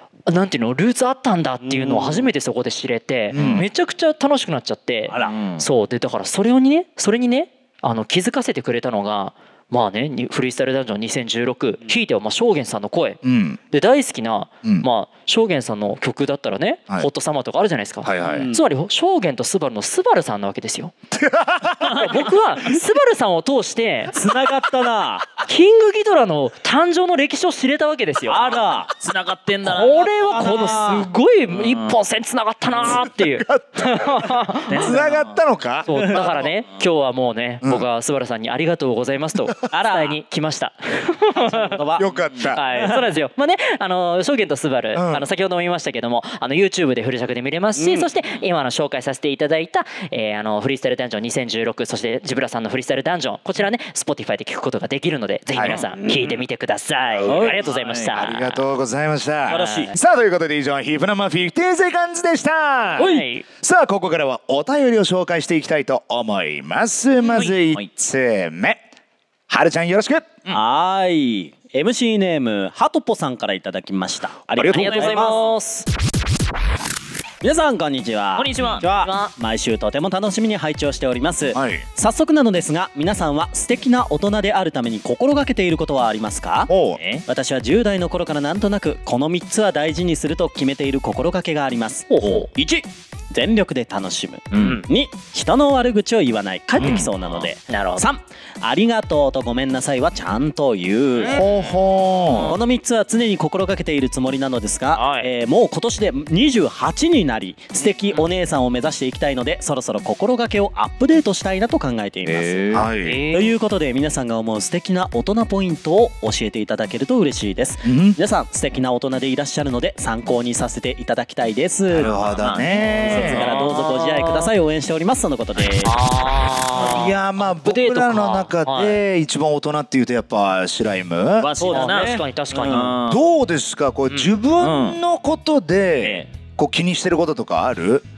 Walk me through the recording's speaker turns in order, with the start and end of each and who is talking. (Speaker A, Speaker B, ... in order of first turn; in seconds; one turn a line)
Speaker A: 0.3-20.9
Speaker B: 1.6-2.3
Speaker C: 3.3-3.7
Speaker D: 3.4-3.6
Speaker B: 5.1-5.4
Speaker D: 5.2-5.7
Speaker C: 13.2-13.6
Speaker C: 18.0-18.5
Speaker B: 18.3-18.6
Speaker C: 21.2-22.2
Speaker D: 21.8-22.2
Speaker A: 22.0-24.1
Speaker B: 24.1-25.4
Speaker A: 25.5-28.5
Speaker B: 28.3-28.9
Speaker D: 28.5-30.7
Speaker A: 29.6-34.9
Speaker B: 30.1-31.1
Speaker D: 31.5-32.0
Speaker C: 32.8-36.5
Speaker D: 34.7-35.4
Speaker A: 35.9-41.8
Speaker B: 35.9-36.3
Speaker B: 39.7-40.2
Speaker B: 41.4-42.2
Speaker C: 42.0-42.6
Speaker A: 42.5-58.6
Speaker B: 42.7-43.0
Speaker C: 44.9-45.3
Speaker B: 47.8-48.1
Speaker C: 55.5-55.8
Speaker B: 55.7-56.4
Speaker B: 57.3-57.6
Speaker D: 57.3-58.4
Speaker C: 58.1-68.8
Speaker B: 59.5-59.9
Speaker A: 59.5-59.9
Speaker A: 63.0-63.5
Speaker B: 63.0-63.2
Speaker D: 67.3-67.9
Speaker C: 69.5-70.4
Speaker B: 70.5-75.4
Speaker D: 74.6-75.4
Speaker A: 74.7-75.9
Speaker B: 77.4-86.7
Speaker D: 78.3-78.9
Speaker A: 79.0-79.3
Speaker C: 81.5-81.8
Speaker C: 86.7-87.0
Speaker D: 87.0-87.2
Speaker B: 87.3-101.4
Speaker A: 92.1-92.5
Speaker D: 94.5-94.8
Speaker D: 96.8-97.5
Speaker A: 97.7-98.1
Speaker D: 101.2-102.5
Speaker C: 101.3-102.6
Speaker B: 102.5-122.3
Speaker A: 104.9-105.3
Speaker D: 112.2-112.9
Speaker C: 112.7-113.2
Speaker A: 113.0-113.6
Speaker C: 117.8-118.2
Speaker C: 121.9-123.5
Speaker D: 121.9-123.8
Speaker B: 123.0-126.0
Speaker A: 123.4-124.5
Speaker A: 125.8-129.0
Speaker C: 126.8-131.5
Speaker D: 131.4-133.2
Speaker B: 131.6-132.9
Speaker A: 131.7-132.9
Speaker C: 133.1-138.0
Speaker D: 134.1-135.0
Speaker D: 136.0-136.3